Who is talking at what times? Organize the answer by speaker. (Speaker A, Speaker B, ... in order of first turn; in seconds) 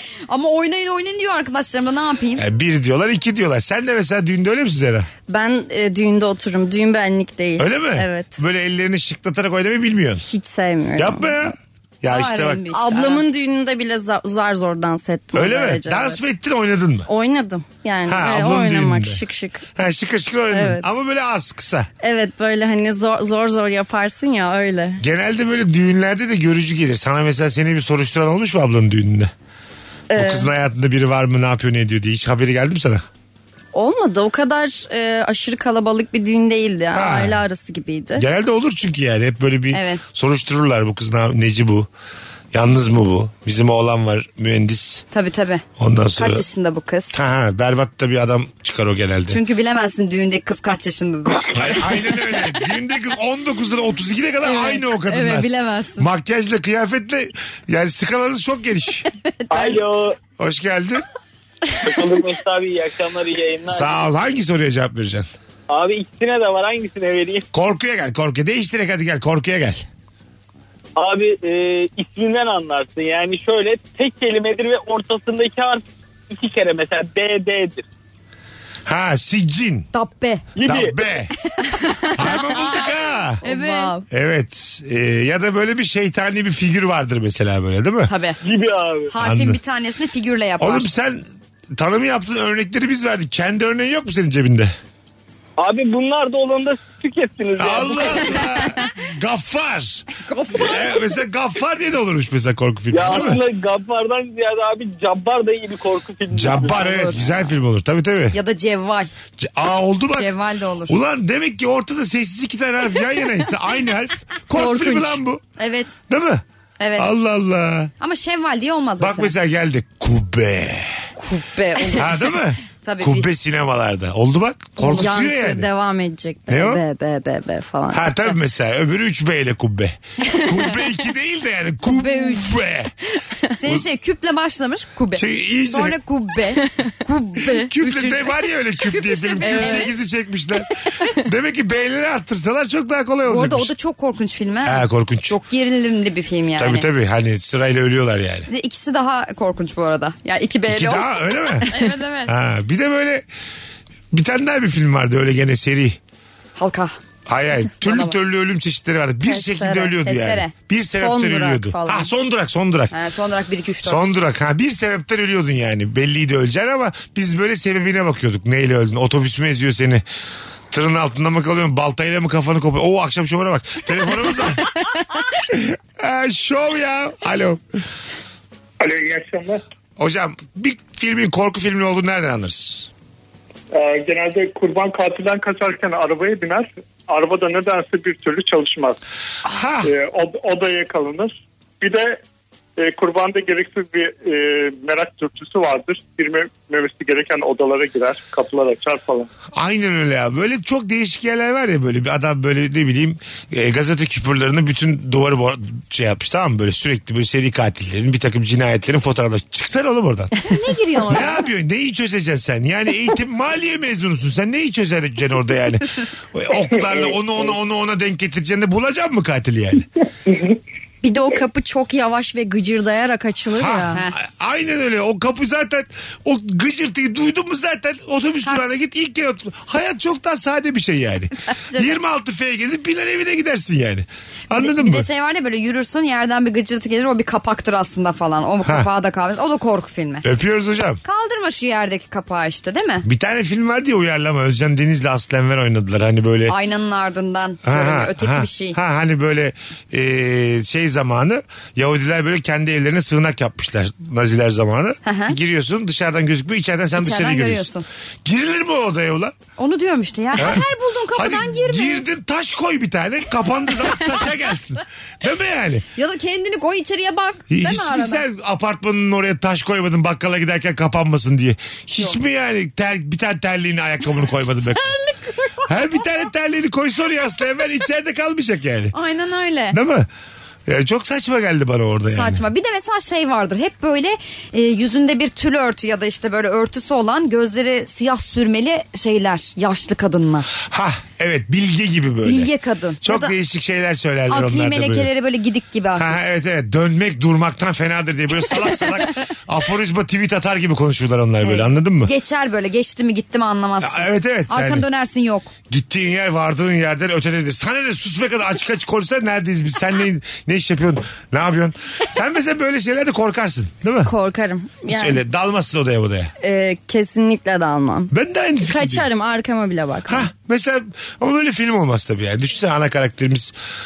Speaker A: 0.3-2.5, 12.1-13.2, 39.7-40.0, 45.1-45.6, 46.2-47.2, 49.3-51.9, 54.4-56.1, 59.4-59.8, 79.9-80.5, 83.4-84.0, 88.1-88.4, 89.1-90.9, 100.2-101.1, 103.1-103.4, 106.6-107.3, 108.3-109.1, 110.1-111.0, 115.6-116.0, 116.8-117.1, 118.0-119.3, 121.2-123.3, 131.9-132.5, 133.6-139.9, 143.3-146.9, 148.5-152.3, 156.6-157.0, 157.8-158.1, 160.0-160.5, 162.9-164.1, 210.5-211.5, 228.5-228.8, 234.6-240.2, 241.0-243.1, 246.5-248.8, 255.1-255.4, 257.0-257.9, 259.6-262.0, 266.0-268.2, 278.9-279.8, 282.1-290.6, 292.2-293.3, 294.3-296.2, 301.4-305.5
Speaker B: 2.4-5.1, 7.6-10.2, 11.0-12.7, 15.3-17.1, 18.1-19.2, 19.8-21.9, 25.0-29.3, 30.1-33.0, 36.9-37.4, 38.2-41.9, 42.5-45.0, 45.8-46.4, 47.1-49.4, 51.5-59.1, 60.4-61.0, 63.7-65.3, 67.5-69.9, 78.9-79.9, 80.6-81.3, 82.2-83.4, 84.1-88.1, 89.2-89.6, 90.6-94.7, 97.6-103.4, 106.3-108.4, 109.4-110.3, 110.9-115.4, 116.1-116.4, 117.0-117.9, 119.0-121.0, 122.0-125.7, 126.5-126.8, 127.9-132.9, 135.2-136.0, 137.5-143.7, 144.6-145.4, 146.6-148.5, 150.7-153.2, 154.1-156.0, 157.3-162.9, 163.8-170.0, 170.7-174.7, 175.3-177.6, 180.0-182.9, 189.4-189.9, 199.5-210.3, 211.1-219.9, 223.5-235.1, 240.2-241.0, 243.1-246.6, 247.6-257.7, 258.2-259.4, 260.4-265.9, 267.5-274.9, 275.6-278.9, 279.7-280.1, 280.7-282.4, 290.6-292.5, 293.0-295.1, 296.0-302.1, 303.8-304.9, 305.7-314.1, 314.9-316.3, 318.1-319.1, 320.1-323.5
Speaker C: 5.3-8.4, 10.2-11.5, 12.7-16.2, 17.1-19.6, 20.5-20.9, 22.0-25.0, 30.1-30.5, 33.7-38.2, 83.4-84.0, 114.5-115.2, 124.8-128.3, 139.4-139.9, 159.2-159.9, 161.0-162.1, 221.0-224.0, 314.0-315.2, 316.4-320.3
Speaker D: 59.5-60.2, 61.8-64.1, 65.7-67.5, 71.0-77.8, 80.6-81.0, 88.4-89.1, 95.6-98.5, 102.9-106.8
Speaker E: 178.8-179.6, 183.7-189.0, 189.8-192.2, 192.8-199.3